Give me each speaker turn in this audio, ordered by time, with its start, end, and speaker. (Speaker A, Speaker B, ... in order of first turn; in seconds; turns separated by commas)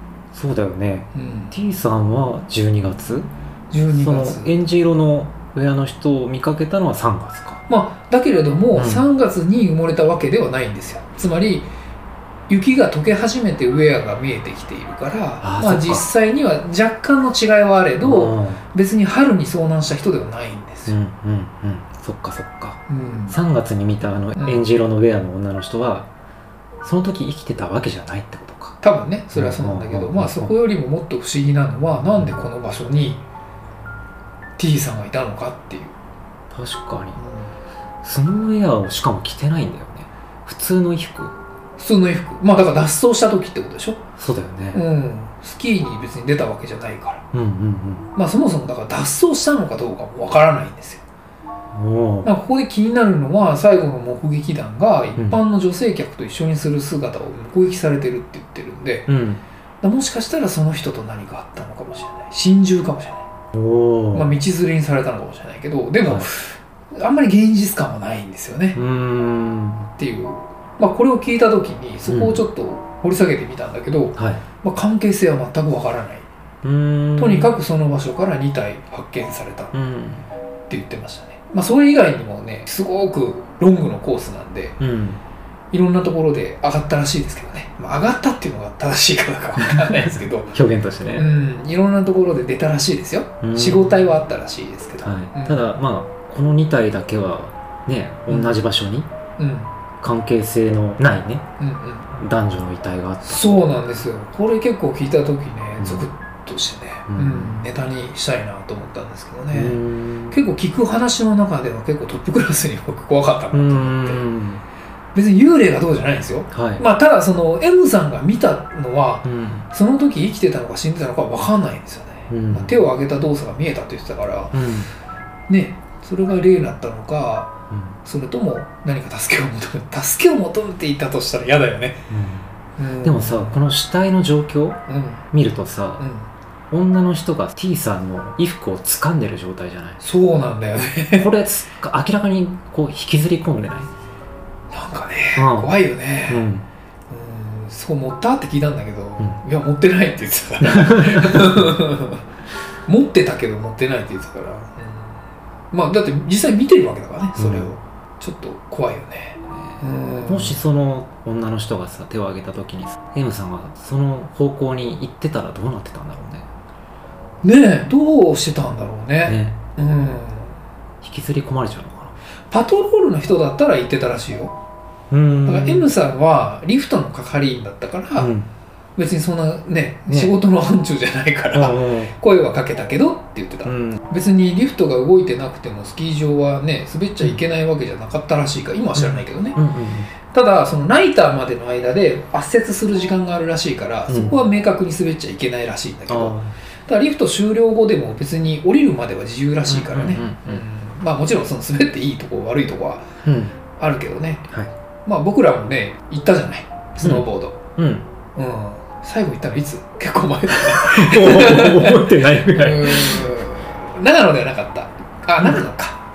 Speaker A: 0.3-3.3, Speaker B: 1.1-1.6, Speaker B: 3.7-4.5, Speaker A: 3.9-7.6, Speaker B: 7.7-11.7, Speaker A: 8.8-9.1, Speaker B: 12.5-21.0, Speaker A: 15.4-16.1, Speaker A: 18.0-18.6, Speaker A: 20.9-26.1, Speaker B: 22.9-23.4, Speaker B: 24.4-24.6, Speaker A: 26.8-28.8, Speaker B: 28.8-33.2, Speaker A: 29.3-30.5, Speaker B: 34.6-35.9, Speaker A: 36.5-37.2, Speaker B: 37.2-37.5, Speaker A: 38.0-41.3, Speaker B: 41.8-44.0, Speaker A: 44.2-44.8, Speaker B: 44.7-47.2, Speaker A: 47.3-48.1, Speaker B: 48.1-51.0, Speaker A: 51.7-52.3, Speaker B: 52.2-59.1, Speaker A: 59.1-59.4, Speaker B: 59.8-63.3, Speaker A: 63.5-64.3, Speaker B: 64.1-68.8, Speaker A: 68.7-69.9, Speaker B: 70.0-76.3, Speaker A: 72.1-72.4, Speaker A: 74.2-74.4, Speaker A: 76.6-77.5, Speaker B: 77.2-79.7, Speaker A: 79.7-80.2, Speaker B: 80.7-84.8, Speaker A: 84.8-85.2, Speaker B: 85.7-90.5, Speaker A: 89.6-91.3, Speaker B: 91.1-95.7, Speaker A: 93.4-94.0, Speaker A: 95.0-99.1, Speaker B: 98.3-98.6, Speaker B: 99.4-99.7, Speaker A: 100.0-101.5, Speaker B: 101.6-102.1, Speaker A: 102.2-103.8, Speaker B: 103.2-109.8, Speaker A: 105.8-106.1, Speaker A: 107.1-107.6, Speaker A: 109.5-110.4, Speaker B: 110.3-114.2, Speaker A: 113.5-114.6, Speaker B: 115.1-124.6, Speaker A: 116.5-116.8, Speaker A: 119.2-119.7, Speaker A: 122.3-122.8, Speaker A: 124.5-124.9, Speaker B: 125.5-127.5, Speaker A: 127.7-128.0, Speaker B: 128.0-132.0, Speaker A: 132.1-132.5, Speaker B: 132.8-133.6, Speaker A: 133.0-134.8, Speaker B: 134.9-135.2, Speaker A: 135.3-136.1, Speaker B: 136.0-136.3, Speaker A: 136.7-140.0, Speaker B: 140.0-141.3, Speaker A: 141.2-143.9, Speaker B: 144.7-146.5, Speaker A: 145.4-145.8, Speaker A: 146.3-146.7, Speaker B: 147.1-152.2, Speaker A: 150.6-151.8, Speaker B: 152.9-155.2, Speaker B: 155.7-160.6, Speaker A: 157.4-157.7, Speaker A: 159.5-166.5, Speaker B: 167.4-170.6, Speaker A: 169.3-169.6, Speaker A: 171.0-172.2, Speaker B: 172.5-174.6, Speaker A: 175.1-175.9, Speaker B: 175.4-178.3, Speaker A: 178.2-178.5, Speaker B: 179.0-189.6, Speaker A: 180.1-180.3, Speaker A: 181.5-182.1, Speaker A: 183.7-184.0, Speaker A: 188.9-190.1, Speaker B: 190.3-203.1, Speaker A: 194.1-194.4, Speaker A: 196.1-196.6, Speaker A: 199.7-200.6, Speaker A: 203.2-203.6, Speaker B: 203.7-204.5, Speaker B: 205.1-207.6, Speaker A: 207.0-208.1, Speaker B: 208.3-216.0, Speaker A: 210.5-213.4, Speaker A: 215.4-215.7